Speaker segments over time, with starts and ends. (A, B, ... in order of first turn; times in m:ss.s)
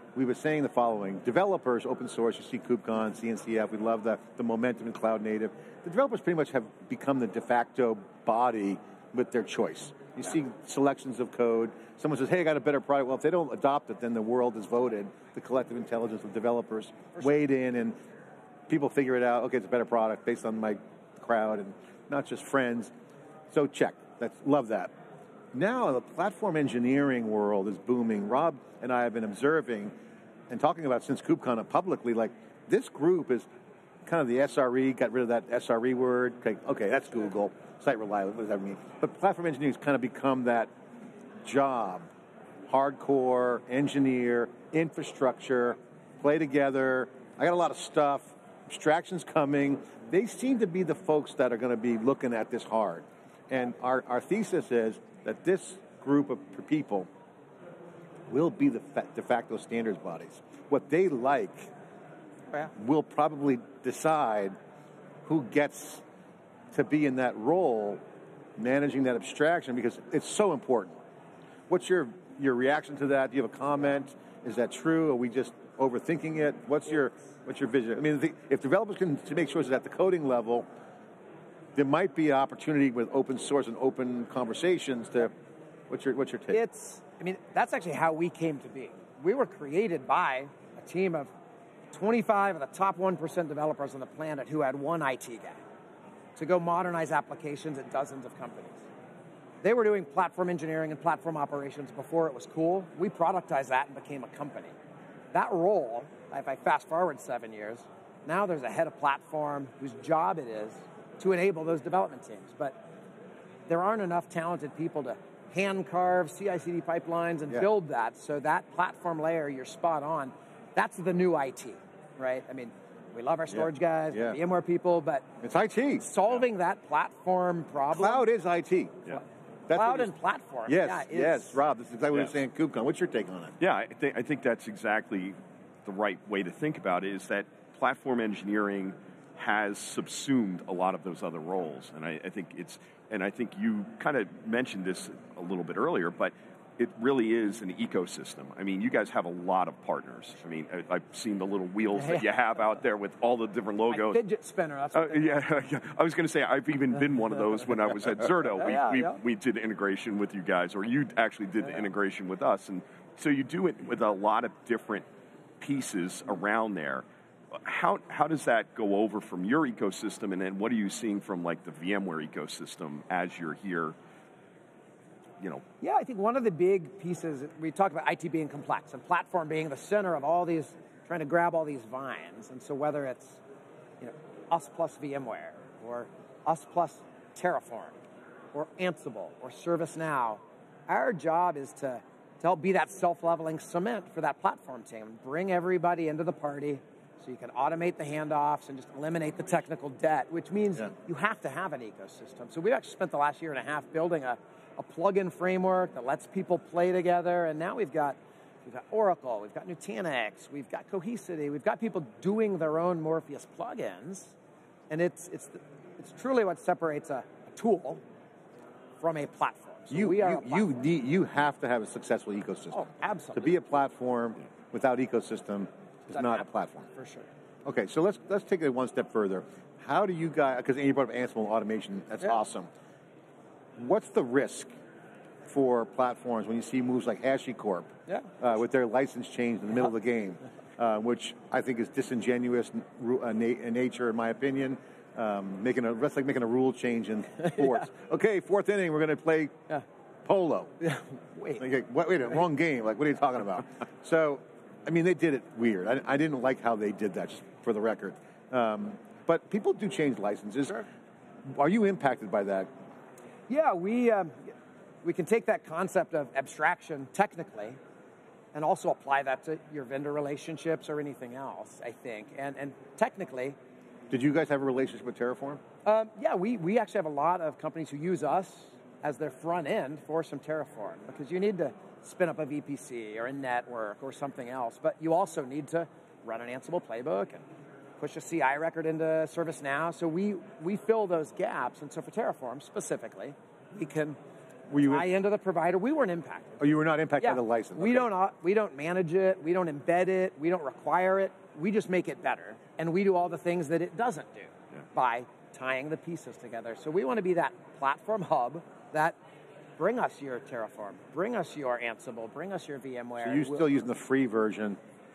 0:00.2-0:18.0 A
0:18.7-0:22.9 A
0:23.5-0:24.9 A
0:25.5-0:29.9 A
0:30.5-0:33.5 A
0:34.0-0:40.7 A
0:41.4-0:42.1 A
0:42.7-0:57.1 A
0:58.3-1:01.7 A
1:02.7-1:04.6 A
1:05.3-1:06.0 A
1:06.7-1:08.0 A
1:08.6-1:11.0 A
1:11.7-1:20.7 A
1:21.8-1:25.3 A
1:25.9-1:26.6 A
1:26.5-1:31.3 B
1:31.9-1:35.6 B
1:36.4-1:38.8 B
1:39.6-1:44.7 B
1:45.3-1:52.8 B
1:53.7-2:05.3 B
2:03.5-2:04.4 A
2:05.4-2:06.0 A
2:06.0-2:08.3 B
2:07.9-2:09.0 A
2:09.7-2:10.1 A
2:09.7-2:11.6 B
2:10.7-2:13.6 A
2:13.6-2:34.2 C
2:33.9-2:35.4 B
2:35.0-2:45.0 C
2:38.6-2:39.2 B
2:45.6-2:54.0 C
2:55.8-3:03.4 B
3:04.0-3:08.0 B
3:08.5-3:34.4 B
3:34.9-3:38.0 B
3:39.0-3:40.7 B
3:39.9-3:42.8 A
3:42.7-3:43.6 B
3:43.4-3:46.9 A
3:46.1-3:47.3 B
3:47.6-3:52.7 A
3:53.8-3:54.7 A
3:55.5-4:09.6 A
4:10.2-4:10.8 A
4:10.8-4:11.6 B
4:11.6-4:20.8 A
4:21.5-4:22.7 A
4:23.5-4:24.5 B
4:25.0-4:27.8 B
4:28.5-4:33.6 B
4:34.1-4:35.6 A
4:35.8-4:47.4 B
4:48.0-4:54.2 B
4:54.7-4:55.1 A
4:54.8-4:56.6 B
4:56.6-4:58.1 A
4:57.2-5:09.2 B
5:09.8-5:13.7 B
5:13.2-5:14.8 A